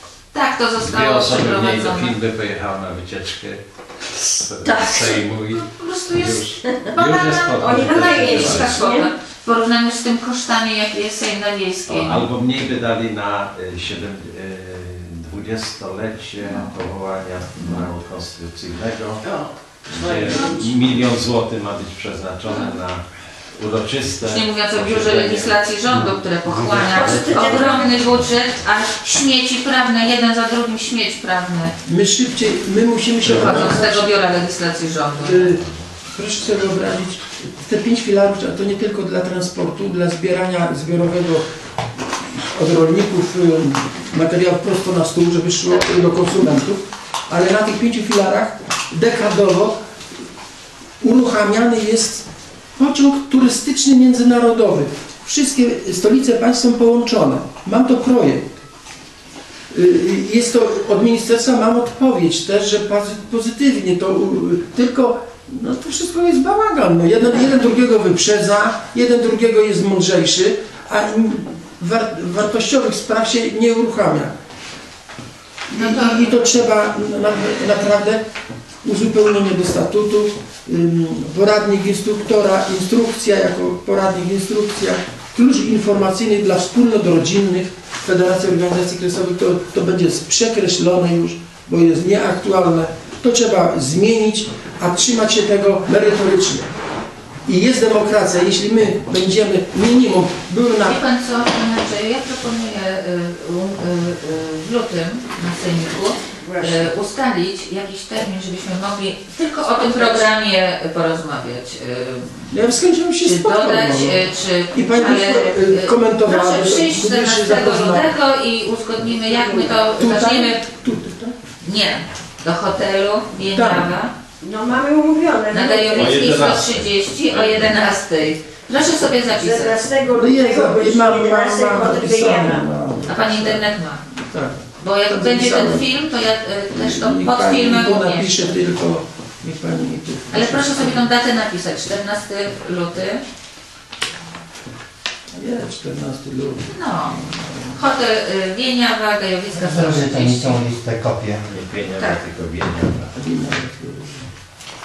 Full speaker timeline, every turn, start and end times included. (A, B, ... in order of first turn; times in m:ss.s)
0:00.3-0:02.2 A
0:00.8-0:08.8 B
0:04.6-0:05.2 C
0:05.5-0:12.3 A
0:06.7-0:07.0 C
0:07.6-0:09.1 C
0:11.9-0:19.2 B
0:16.4-0:16.7 A
0:19.2-0:20.7 C
0:19.9-0:23.0 B
0:20.3-0:20.6 A
0:23.5-0:25.6 B
0:24.2-0:31.8 A
0:25.9-0:27.8 D
0:26.9-0:28.0 C
0:31.8-0:34.1 E
0:33.2-0:35.6 A
0:35.2-0:35.6 E
0:36.2-0:41.5 E
0:42.0-0:49.8 E
0:51.0-0:58.7 E
0:59.7-1:14.3 E
1:15.7-1:18.2 E
1:15.7-1:16.3 A
1:18.8-1:36.7 E
1:37.5-1:41.0 E
1:40.8-1:52.5 A
1:46.4-1:46.9 C
1:49.9-1:50.2 C
1:52.5-1:58.1 E
1:53.2-2:00.7 A
1:59.2-1:59.8 C
2:00.0-2:01.4 E
2:01.6-2:04.1 A
2:03.5-2:03.9 E
2:04.4-2:06.4 C
2:05.5-2:09.8 A
2:05.9-2:07.7 B
2:09.3-2:12.7 C
2:10.1-2:15.9 E
2:13.1-2:14.0 A
2:14.8-2:18.6 A
2:16.8-2:21.0 E
2:20.3-2:23.2 A
2:25.3-2:27.8 E
2:26.7-2:30.7 A
2:29.5-2:31.4 D
2:31.5-2:33.1 B
2:32.0-2:32.2 A
2:33.1-2:34.3 E